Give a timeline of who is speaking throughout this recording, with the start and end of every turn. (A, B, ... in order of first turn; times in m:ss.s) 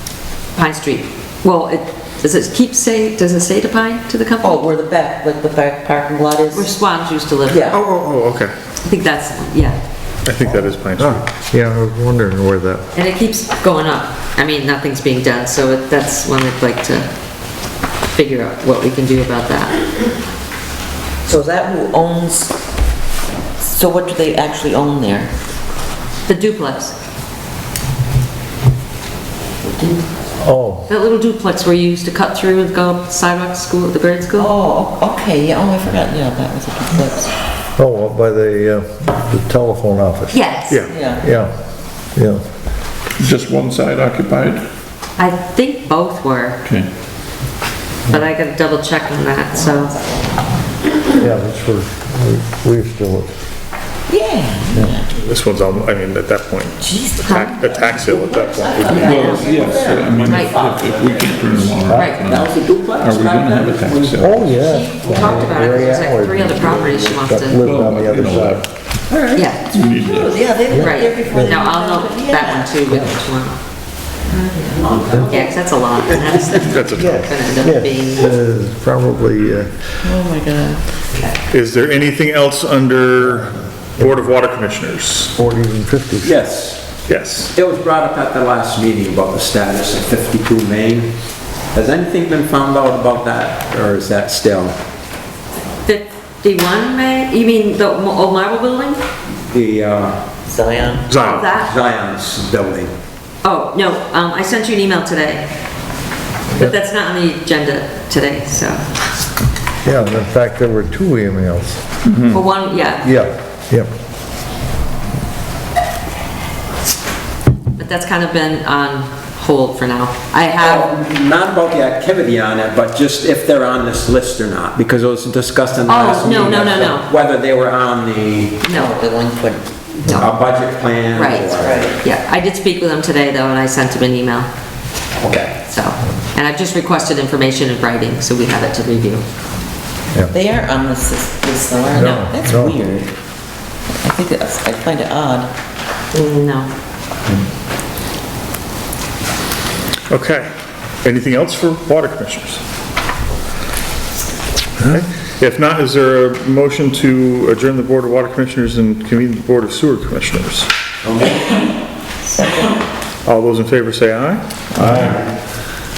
0:00.6-0:04.6 A
0:04.4-0:06.7 B
0:06.5-0:07.8 A
0:07.5-0:07.8 B
0:07.7-0:08.5 C
0:08.8-0:09.8 A
0:10.2-0:11.2 C
0:11.0-0:12.8 D
0:12.9-0:17.1 A
0:18.1-0:19.8 A
0:21.2-0:22.6 B
0:23.6-0:25.3 B
0:26.3-0:26.9 A
0:30.4-0:30.8 D
0:30.9-0:34.5 A
0:34.4-0:37.3 B
0:37.8-0:40.4 D
0:40.3-0:40.8 A
0:40.7-0:40.9 C
0:40.9-0:41.2 B
0:41.2-0:41.5 D
0:42.1-0:42.4 D
0:43.2-0:44.6 E
0:45.2-0:46.6 A
0:48.1-0:50.0 A
0:51.2-0:53.3 D
0:54.1-0:55.1 B
0:55.1-0:59.1 C
0:56.8-1:00.8 B
0:57.2-0:57.5 A
0:58.8-1:04.5 E
0:58.9-0:59.5 A
0:59.3-1:04.3 F
1:01.8-1:02.1 D
1:01.9-1:02.2 A
1:04.2-1:08.6 D
1:04.6-1:07.6 A
1:05.2-1:05.7 F
1:07.5-1:08.7 E
1:09.1-1:12.7 B
1:09.3-1:09.6 A
1:09.6-1:10.4 E
1:10.7-1:11.5 D
1:10.7-1:13.5 A
1:14.3-1:15.5 B
1:15.1-1:18.2 A
1:16.6-1:17.2 C
1:16.9-1:19.8 D
1:20.0-1:20.8 B
1:21.5-1:25.3 C
1:25.4-1:26.4 D
1:26.2-1:26.8 F
1:27.1-1:27.5 C
1:27.5-1:31.1 F
1:31.7-1:34.8 F
1:35.7-1:39.0 A
1:39.4-1:40.2 F
1:40.5-1:41.0 B
1:41.1-1:41.5 C
1:41.1-1:41.7 A
1:41.5-1:42.9 F
1:43.4-1:45.5 A
1:46.5-1:48.9 A
1:49.8-1:51.8 D
1:52.0-1:52.4 E
1:52.3-1:53.1 A
1:53.0-1:53.9 D
1:57.8-2:00.9 A
2:00.6-2:08.6 F
2:05.8-2:07.1 A
2:08.6-2:09.0 A
2:08.7-2:09.7 B
2:10.0-2:12.0 F
2:11.1-2:14.5 A
2:11.5-2:11.9 B
2:15.2-2:15.6 F
2:15.6-2:19.2 A
2:20.3-2:23.1 B
2:21.9-2:22.8 D
2:23.9-2:25.5 B
2:26.1-2:26.7 A
2:30.1-2:30.5 C
2:31.0-2:32.6 C
2:34.8-2:40.7 C
2:43.2-2:45.2 C
2:44.8-2:45.2 D